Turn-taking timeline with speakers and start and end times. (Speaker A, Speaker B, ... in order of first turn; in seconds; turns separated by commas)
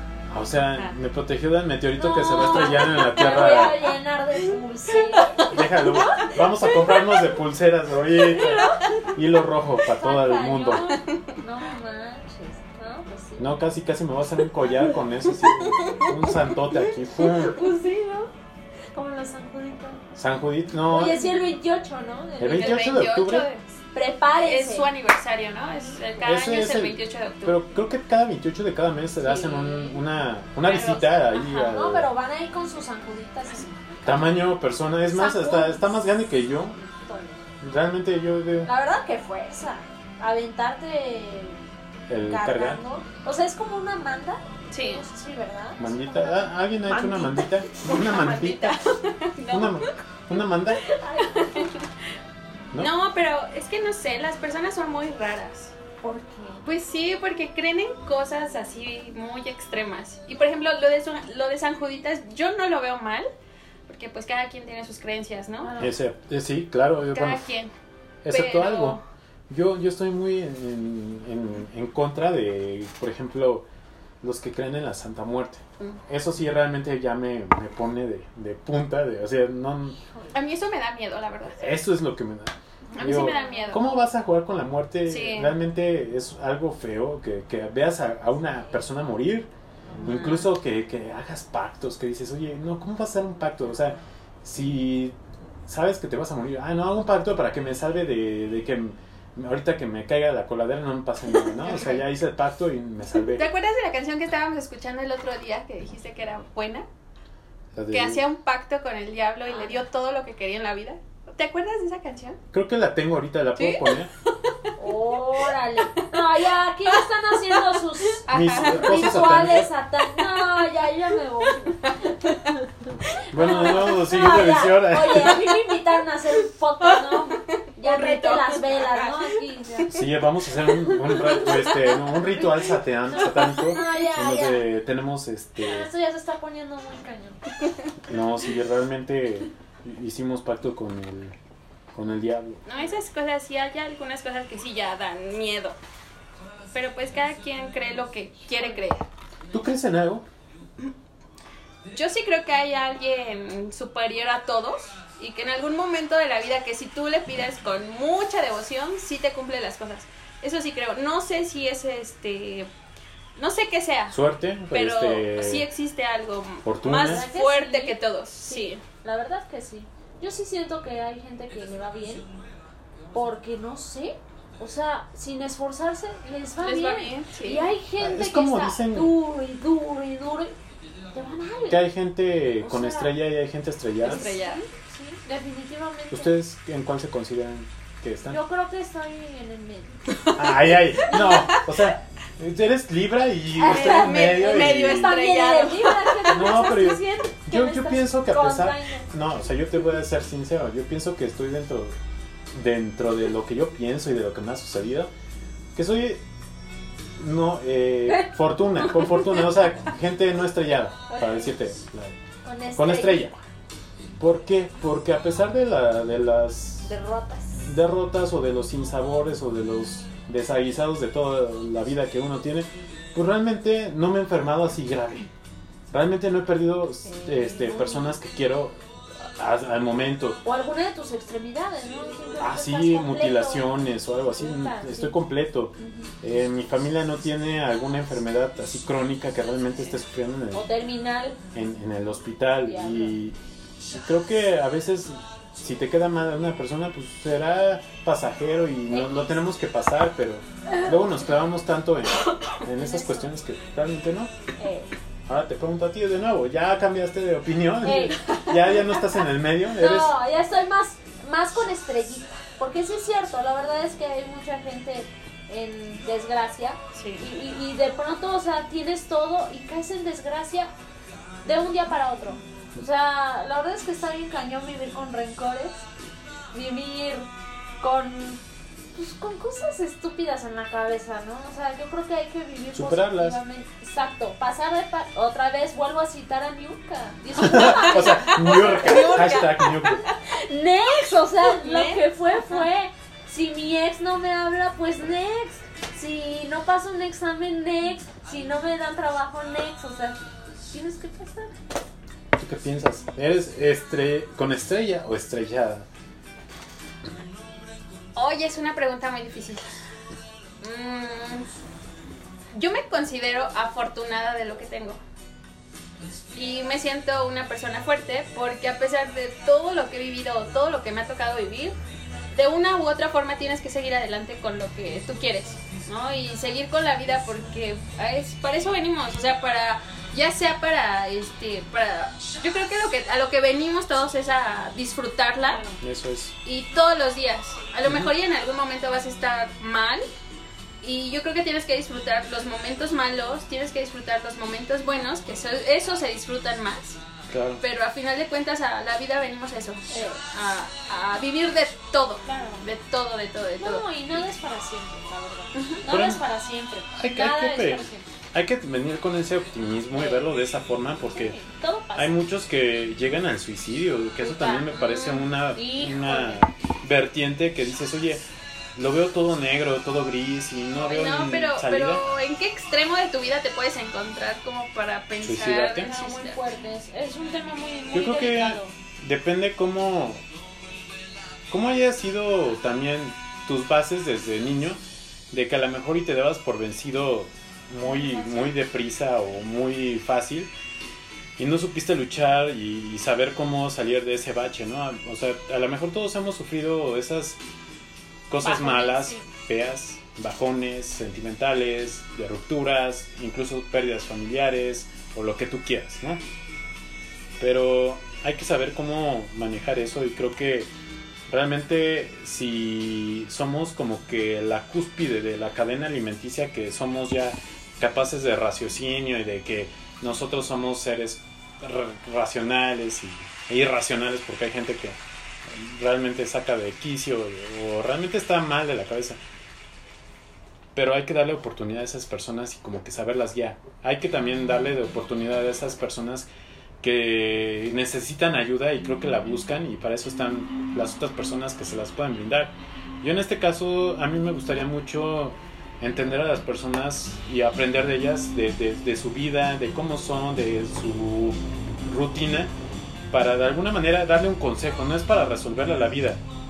Speaker A: 0.3-3.8, Speaker B: 2.0-6.9, Speaker C: 2.3-3.3, Speaker C: 4.9-5.5, Speaker A: 5.5-10.9, Speaker B: 8.2-8.9, Speaker B: 10.0-13.5, Speaker C: 10.9-11.2, Speaker A: 13.4-17.6, Speaker B: 17.2-18.3, Speaker B: 18.9-20.0, Speaker A: 20.1-21.3, Speaker B: 20.9-23.0, Speaker A: 22.4-23.5, Speaker C: 22.5-23.7, Speaker B: 23.9-24.9, Speaker C: 24.4-27.6, Speaker A: 26.2-32.1, Speaker B: 29.2-30.0, Speaker C: 30.6-31.1, Speaker B: 31.3-34.2, Speaker A: 34.0-36.8, Speaker B: 35.1-35.9, Speaker B: 36.8-37.4, Speaker A: 37.6-38.7, Speaker B: 38.6-41.6, Speaker A: 42.1-42.8, Speaker B: 42.2-47.6, Speaker C: 44.7-45.0, Speaker A: 45.8-48.8, Speaker C: 47.8-49.9, Speaker A: 49.5-50.8, Speaker B: 50.9-51.7, Speaker C: 51.2-51.8, Speaker C: 52.8-55.7, Speaker B: 56.0-56.6, Speaker C: 56.6-63.3, Speaker C: 63.9-65.7, Speaker B: 65.6-65.9, Speaker A: 65.8-67.5, Speaker C: 67.1-67.7, Speaker A: 68.2-73.7, Speaker C: 68.3-69.0, Speaker A: 74.2-80.0, Speaker C: 80.3-81.8, Speaker A: 81.6-89.5, Speaker B: 82.9-83.8, Speaker C: 82.9-84.0, Speaker C: 85.1-85.5, Speaker C: 90.0-90.5, Speaker A: 90.0-103.5, Speaker C: 101.5-102.0, Speaker C: 103.3-106.8, Speaker A: 107.7-108.2, Speaker C: 107.9-112.4, Speaker B: 109.5-109.8, Speaker A: 112.5-114.1, Speaker C: 113.6-114.0, Speaker B: 114.8-121.9, Speaker C: 118.2-118.9, Speaker A: 118.3-119.7, Speaker A: 123.3-125.5, Speaker B: 123.3-129.9, Speaker C: 123.4-123.8, Speaker C: 126.9-127.2, Speaker C: 127.8-130.0, Speaker A: 129.9-135.9, Speaker B: 133.1-134.7, Speaker B: 135.6-137.4, Speaker A: 138.1-141.3, Speaker A: 141.9-142.6, Speaker C: 142.7-145.8, Speaker C: 146.7-149.1, Speaker A: 149.5-150.2, Speaker C: 151.9-162.7, Speaker C: 163.3-164.2, Speaker A: 164.1-165.7, Speaker C: 164.7-168.8, Speaker A: 166.6-167.2, Speaker B: 167.0-172.2, Speaker B: 173.1-180.5, Speaker C: 176.6-177.7, Speaker A: 178.0-179.1, Speaker B: 181.1-181.9, Speaker A: 181.7-184.3, Speaker B: 182.6-183.1, Speaker C: 184.0-184.6, Speaker B: 184.0-186.3, Speaker A: 186.1-188.4, Speaker B: 188.3-190.1, Speaker C: 190.3-191.9, Speaker A: 190.3-195.2, Speaker B: 193.6-199.1, Speaker C: 193.6-196.4, Speaker A: 196.3-201.9, Speaker A: 202.5-205.1, Speaker A: 205.7-206.2, Speaker A: 207.2-212.2, Speaker B: 211.1-211.5, Speaker B: 212.4-213.3, Speaker A: 212.7-213.4, Speaker A: 214.2-216.9, Speaker B: 216.8-217.6, Speaker A: 217.6-225.3, Speaker A: 225.9-230.4, Speaker B: 227.1-228.2, Speaker B: 230.4-233.8, Speaker A: 232.4-240.7, Speaker B: 234.3-235.2, Speaker B: 235.8-236.1, Speaker B: 240.5-241.4, Speaker A: 241.5-243.3, Speaker B: 242.6-243.1, Speaker A: 243.9-254.3, Speaker B: 248.9-249.3, Speaker B: 250.7-251.0, Speaker B: 252.5-253.3, Speaker B: 254.6-254.9, Speaker A: 255.3-260.1, Speaker B: 257.8-258.4, Speaker C: 258.0-258.5, Speaker B: 259.7-270.7, Speaker C: 266.9-267.2, Speaker B: 271.4-275.8, Speaker B: 276.5-277.3, Speaker B: 277.8-278.4, Speaker B: 278.9-289.2, Speaker A: 282.7-283.4, Speaker A: 287.4-290.0, Speaker C: 287.7-289.9, Speaker B: 290.1-301.5, Speaker C: 291.5-292.0, Speaker A: 302.4-305.9, Speaker C: 308.1-309.8, Speaker C: 310.6-311.5, Speaker C: 312.5-315.0, Speaker C: 316.3-321.8, Speaker C: 322.3-335.6, Speaker B: 335.4-335.8, Speaker A: 335.8-336.3, Speaker C: 336.4-340.1, Speaker A: 337.8-338.1, Speaker C: 340.8-347.0, Speaker A: 347.3-347.6, Speaker C: 347.6-353.8, Speaker B: 349.9-350.3, Speaker B: 352.2-352.6, Speaker B: 353.6-358.1, Speaker C: 355.5-355.8, Speaker A: 355.9-356.2, Speaker A: 356.9-361.4, Speaker B: 359.9-360.2, Speaker B: 361.1-362.1, Speaker A: 361.9-368.2, Speaker C: 364.2-365.3, Speaker B: 365.5-366.4, Speaker A: 368.8-372.0, Speaker C: 370.8-376.4, Speaker A: 375.2-375.9, Speaker B: 375.8-378.7, Speaker A: 377.9-380.2, Speaker A: 381.5-384.8, Speaker A: 385.3-390.5, Speaker B: 387.8-388.5, Speaker A: 391.4-397.4, Speaker A: 398.3-406.2, Speaker B: 398.4-399.3, Speaker A: 407.4-410.7, Speaker A: 411.3-429.2, Speaker A: 430.7-436.3, Speaker A: 436.8-452.5, Speaker A: 453.1-456.2